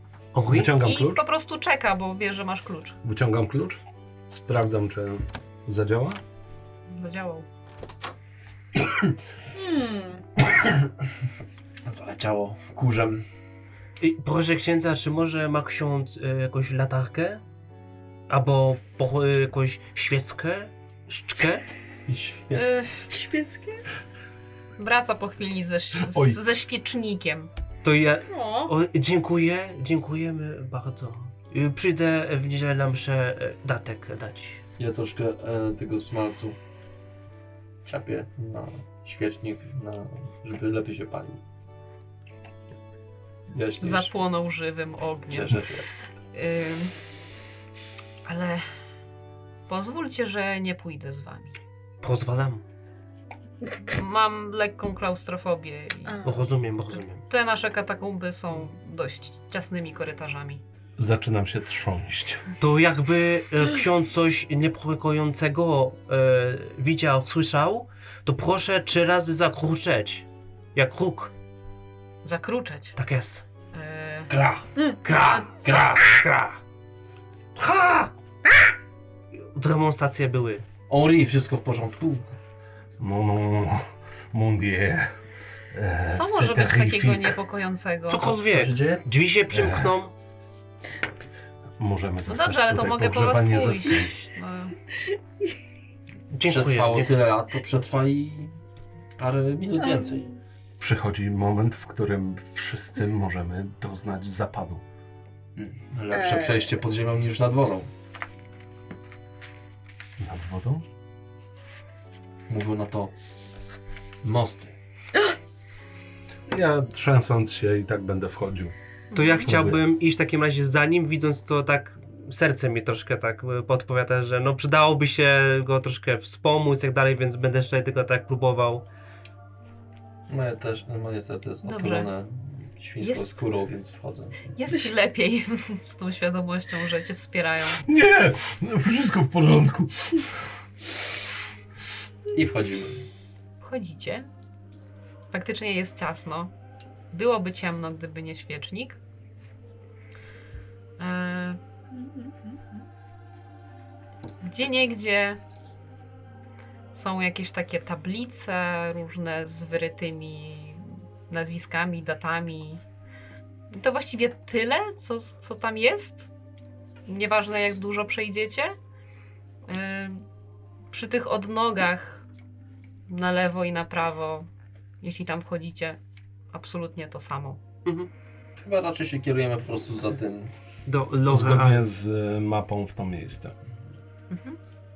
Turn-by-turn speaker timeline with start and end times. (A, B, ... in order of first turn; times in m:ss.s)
0:00.3-0:00.7 A
0:00.5-0:01.2 B
0:00.7-0:03.0 C
0:03.0-0:06.2 B
0:06.9-0:07.4 C
0:09.5-0:10.2 D
0:11.8-0:13.2 E
0:14.0-0:17.4 A
0:18.3-0:21.6 A
0:22.1-0:22.6 E
0:22.5-0:23.0 C
0:23.0-0:23.8 D
0:24.8-0:27.5 C
0:26.0-0:26.4 B
0:27.8-0:34.6 A
0:28.3-0:28.7 D
0:34.8-0:36.6 E
0:37.8-0:41.4 E
0:43.5-0:44.1 E
0:43.8-0:45.6 C
0:45.3-0:45.9 E
0:46.3-0:46.9 C
0:48.2-0:48.6 C
0:49.7-0:51.6 C
0:52.0-0:52.6 A
0:53.9-0:56.3 C
0:56.0-0:56.4 D
0:56.2-0:57.2 A
0:57.3-1:00.6 C
1:01.0-1:02.4 B
1:02.6-1:11.3 A
1:12.2-1:13.0 C
1:13.0-1:13.4 A
1:13.7-1:14.3 C
1:14.3-1:14.7 E
1:14.8-1:15.4 D
1:15.0-1:16.6 A
1:15.4-1:16.0 E
1:17.6-1:18.1 B
1:19.5-1:20.6 A
1:20.9-1:22.3 E
1:23.0-1:25.1 B
1:25.7-1:27.4 B
1:26.1-1:28.3 C
1:28.1-1:30.1 A
1:28.4-1:29.1 E
1:29.5-1:29.9 B
1:31.8-1:34.1 B
1:32.2-1:34.8 C
1:36.3-1:37.1 A
1:36.4-1:38.5 E
1:39.2-1:40.3 E
1:39.8-1:40.2 D
1:40.8-1:44.8 B
1:45.6-1:47.9 E
1:46.1-1:46.7 D
1:50.2-1:50.8 B
1:52.5-1:53.1 E
1:54.2-1:54.7 E
1:56.5-1:58.7 B
1:59.1-1:59.6 C
1:59.1-2:08.8 A
1:59.4-1:59.8 B
2:10.3-2:14.6 E
2:11.6-2:12.1 C
2:13.0-2:13.3 C
2:14.5-2:17.8 C
2:17.8-2:20.3 B
2:22.3-2:23.0 E
2:23.6-2:24.2 C
2:25.3-2:26.5 C
2:27.1-2:29.0 C
2:31.0-2:31.6 C
2:31.9-2:32.8 D
2:34.4-2:35.4 C
2:36.9-2:42.8 C
2:43.7-2:46.3 C
2:47.0-2:48.7 C
2:49.6-2:50.2 C
2:50.9-2:52.2 C
2:53.1-2:54.5 C
2:55.0-2:56.0 C
2:56.5-2:57.6 C
2:58.6-3:00.5 E
3:00.8-3:01.9 A
3:01.3-3:03.5 B
3:04.3-3:04.6 C